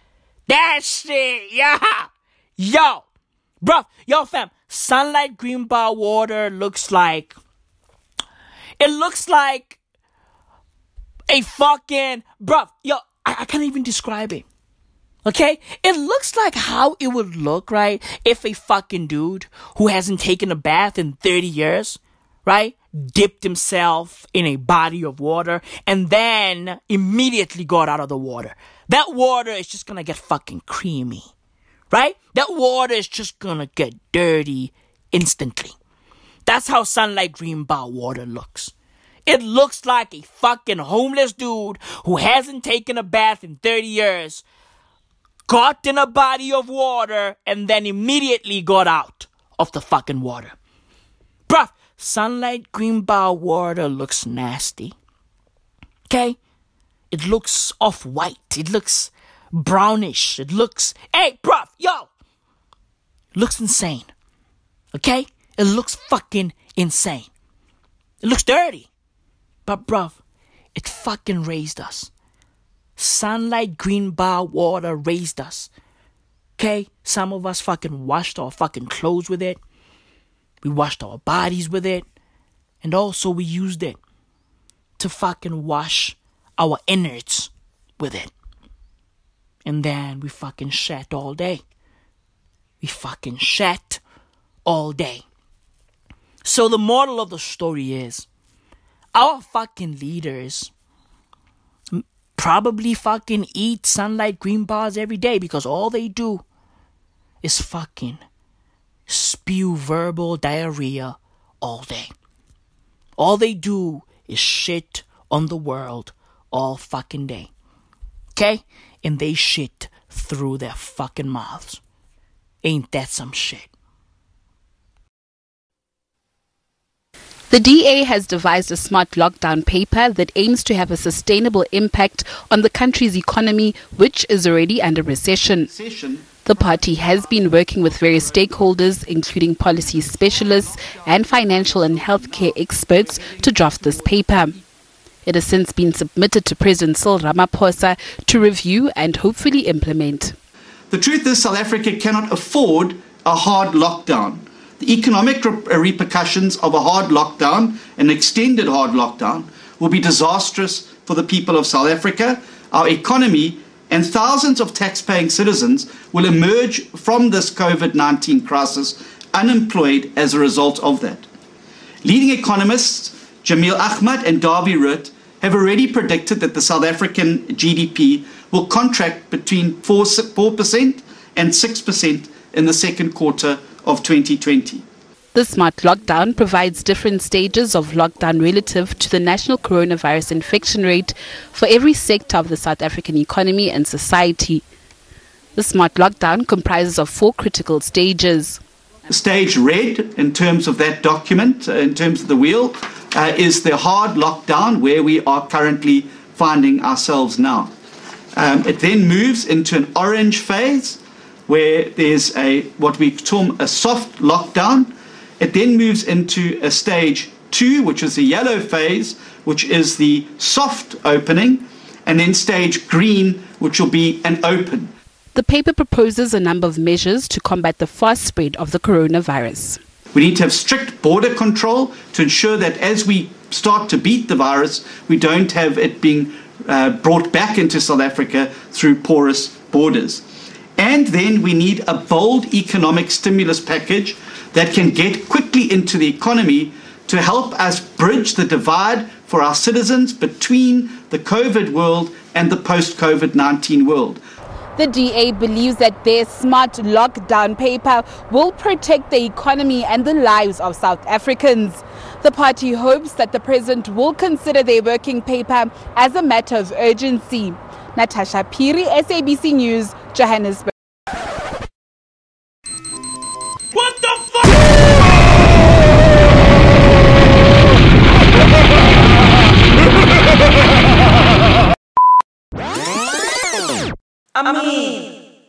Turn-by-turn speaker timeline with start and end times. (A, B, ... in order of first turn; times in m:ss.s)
0:00.5-0:03.0 A
0:03.6-0:07.4 A
0:08.8-0:09.8 A
0:11.3-0:14.4 A
0:15.2-0:31.3 A
0:31.9-0:35.8 A
0:36.4-0:38.7 A
0:39.3-0:44.4 A
0:45.5-0:50.6 A
0:51.5-0:55.0 A
0:56.1-0:56.4 A
0:57.1-1:02.1 A
1:03.3-1:04.1 A
1:04.9-1:07.3 A
1:08.2-1:08.9 A
1:09.6-1:10.2 A
1:10.7-1:12.1 A
1:13.0-1:15.7 A
1:16.6-1:19.6 A
1:20.6-1:22.0 A
1:22.8-1:24.0 A
1:25.0-1:28.3 A
1:29.6-1:31.6 A
1:32.8-1:34.0 A
1:34.6-1:35.2 A
1:36.4-1:38.2 A
1:39.1-1:40.7 A
1:41.9-1:46.4 A
1:47.4-1:48.2 A
1:49.1-1:52.1 A
1:53.2-1:57.5 A
1:58.3-2:01.8 A
2:02.6-2:03.7 A
2:07.5-2:15.7 B
2:15.7-2:17.0 C
2:16.4-2:24.6 B
2:20.2-2:23.9 C
2:25.2-2:30.4 B
2:30.9-2:51.2 C
2:52.0-3:04.8 C
3:05.3-3:14.6 B
3:15.6-3:18.6 B
3:19.1-3:27.7 C
3:28.4-3:44.9 C
3:45.3-3:49.8 B
3:50.1-4:00.2 C
4:00.8-4:14.2 C
4:14.8-4:30.7 B
4:33.7-4:34.9 A
4:44.3-4:45.1 A